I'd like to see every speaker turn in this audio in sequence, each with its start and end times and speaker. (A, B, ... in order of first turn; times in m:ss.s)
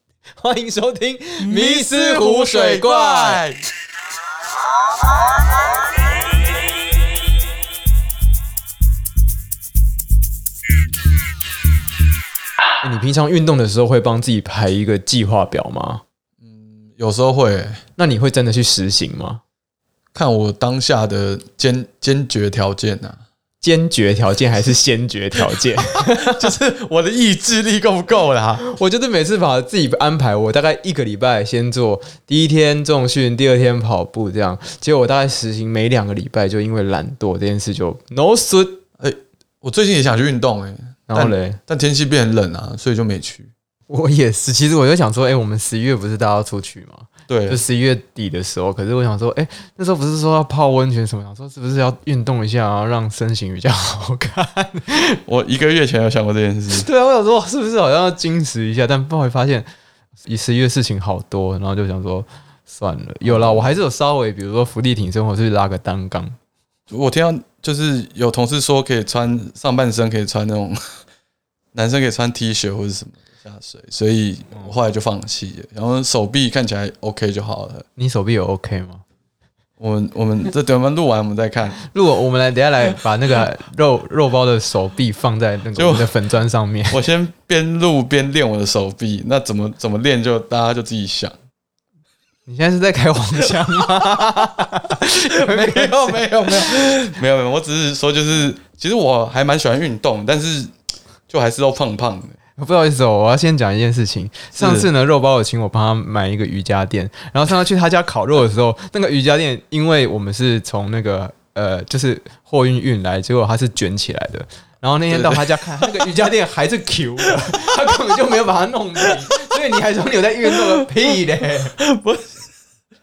0:00.4-0:03.4 A
0:01.4-0:03.6 B
0:12.8-0:16.0 A
0:16.4-0:17.8 B
0:18.0-0:19.4 A
0:20.1-0:23.2 B
0:23.6-0:26.5 A
0:26.0-0:28.6 B
0:28.6-0:38.8 A
0:39.0-0:43.5 B
0:41.1-0:41.6 A
0:43.9-0:55.2 A
0:47.3-0:47.6 B
0:55.2-0:56.9 B
0:56.7-0:59.7 A
1:00.2-1:06.4 A
1:03.2-1:03.7 B
1:06.9-1:11.0 B
1:11.7-1:17.8 B
1:18.0-1:19.0 A
1:19.8-1:21.8 B
1:21.8-1:27.0 A
1:25.7-1:26.1 B
1:26.9-1:31.3 B
1:32.5-1:36.7 A
1:35.3-1:40.7 B
1:41.3-1:42.4 B
1:42.6-2:01.8 A
1:44.5-1:44.9 B
1:55.1-1:56.1 B
2:00.5-2:00.7 B
2:01.8-2:02.3 B